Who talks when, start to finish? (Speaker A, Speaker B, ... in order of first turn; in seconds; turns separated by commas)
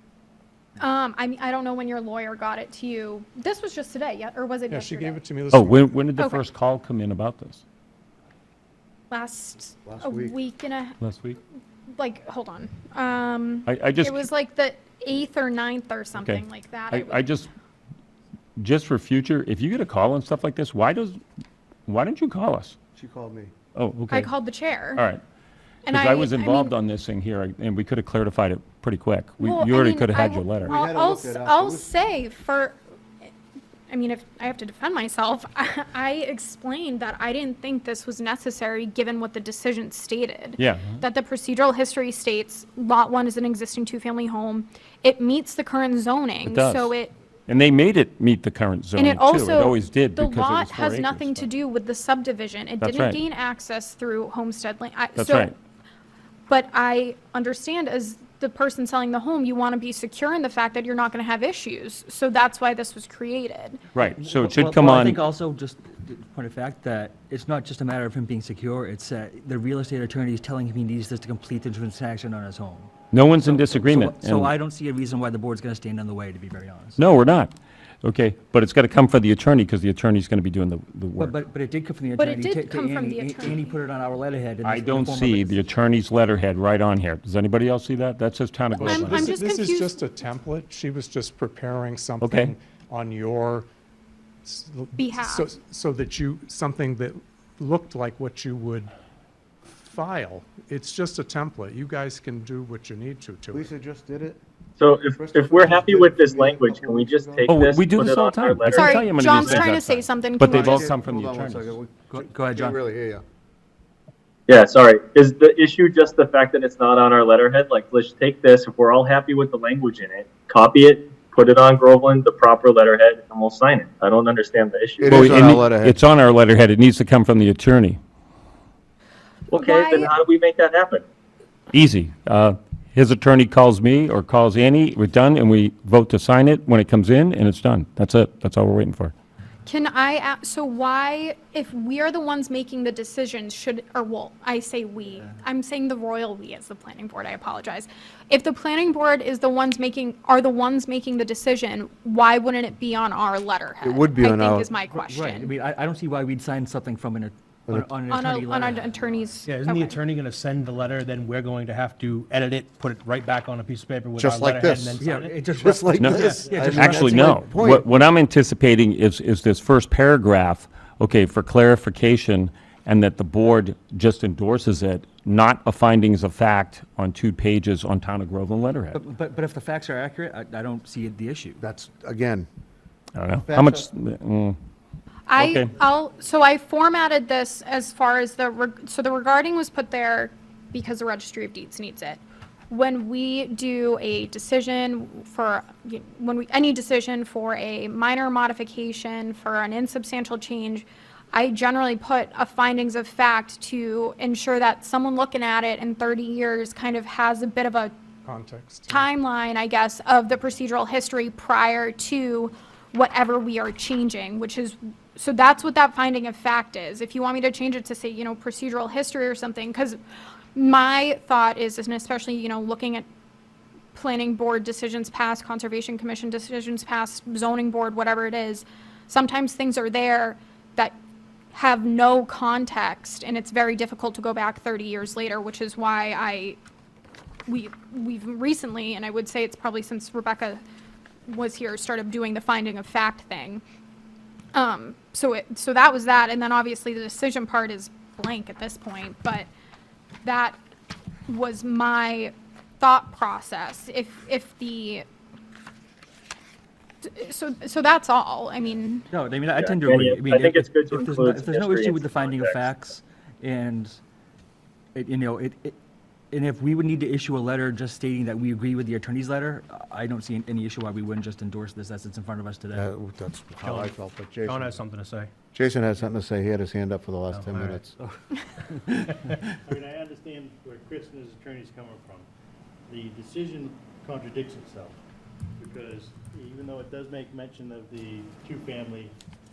Speaker A: 0.8-5.2, Speaker B: 4.7-5.8, Speaker C: 5.5-7.6, Speaker A: 6.2-6.4, Speaker A: 9.1-11.0, Speaker D: 9.9-10.3, Speaker C: 11.0-11.4, Speaker A: 11.9-17.2, Speaker C: 13.7-14.3, Speaker C: 16.2-17.5, Speaker C: 18.6-21.2, Speaker C: 21.9-22.8, Speaker D: 22.9-23.5, Speaker C: 23.8-24.3, Speaker A: 24.1-25.0, Speaker C: 25.0-25.2, Speaker C: 25.9-30.8, Speaker A: 25.9-26.8, Speaker A: 29.4-32.8, Speaker D: 30.6-31.9, Speaker A: 33.9-47.1, Speaker C: 40.6-41.0, Speaker C: 46.5-46.9, Speaker C: 47.5-51.5, Speaker A: 49.0-55.5, Speaker C: 52.8-53.2, Speaker C: 55.1-55.5, Speaker A: 56.5-63.8, Speaker C: 63.9-65.2, Speaker E: 64.2-77.0, Speaker C: 73.1-74.5, Speaker C: 77.0-81.4, Speaker E: 81.2-85.6, Speaker A: 82.2-83.8, Speaker C: 84.6-89.2, Speaker A: 88.7-90.0, Speaker B: 88.8-93.7, Speaker C: 92.2-92.5, Speaker B: 94.4-98.9, Speaker A: 95.0-95.5, Speaker B: 99.7-103.7, Speaker D: 103.5-104.4, Speaker F: 104.8-108.9, Speaker D: 105.1-107.5, Speaker C: 107.5-111.8, Speaker A: 108.7-110.9, Speaker D: 110.5-113.2, Speaker E: 112.1-112.8, Speaker F: 114.5-125.1, Speaker D: 125.0-126.0, Speaker C: 125.1-128.0, Speaker F: 129.5-131.0, Speaker A: 129.5-130.1, Speaker C: 131.7-139.1, Speaker A: 139.7-155.5, Speaker D: 153.8-154.7, Speaker E: 154.9-159.4, Speaker A: 158.1-160.0, Speaker G: 159.5-165.3, Speaker D: 164.2-165.0, Speaker E: 165.0-167.0, Speaker D: 165.6-167.9, Speaker C: 166.0-179.0, Speaker G: 166.2-166.5, Speaker H: 166.5-167.1, Speaker E: 178.9-181.6, Speaker D: 181.6-182.5, Speaker C: 183.2-184.6, Speaker D: 183.4-183.9, Speaker A: 185.3-207.9, Speaker C: 185.4-185.7, Speaker B: 208.2-209.1, Speaker A: 208.9-220.0, Speaker A: 220.6-223.1, Speaker A: 223.9-231.0, Speaker A: 231.5-236.6, Speaker A: 237.5-240.6, Speaker A: 241.3-243.6, Speaker A: 244.5-249.5, Speaker A: 250.2-250.6, Speaker A: 251.3-255.1, Speaker A: 257.1-259.1, Speaker E: 259.1-264.0, Speaker F: 259.6-262.6, Speaker E: 264.9-265.8, Speaker E: 266.3-272.9, Speaker D: 272.7-274.8, Speaker G: 273.6-273.9, Speaker G: 274.5-275.3, Speaker D: 275.5-278.0, Speaker G: 277.3-277.8, Speaker H: 279.7-282.3, Speaker H: 282.9-284.9, Speaker H: 285.6-289.1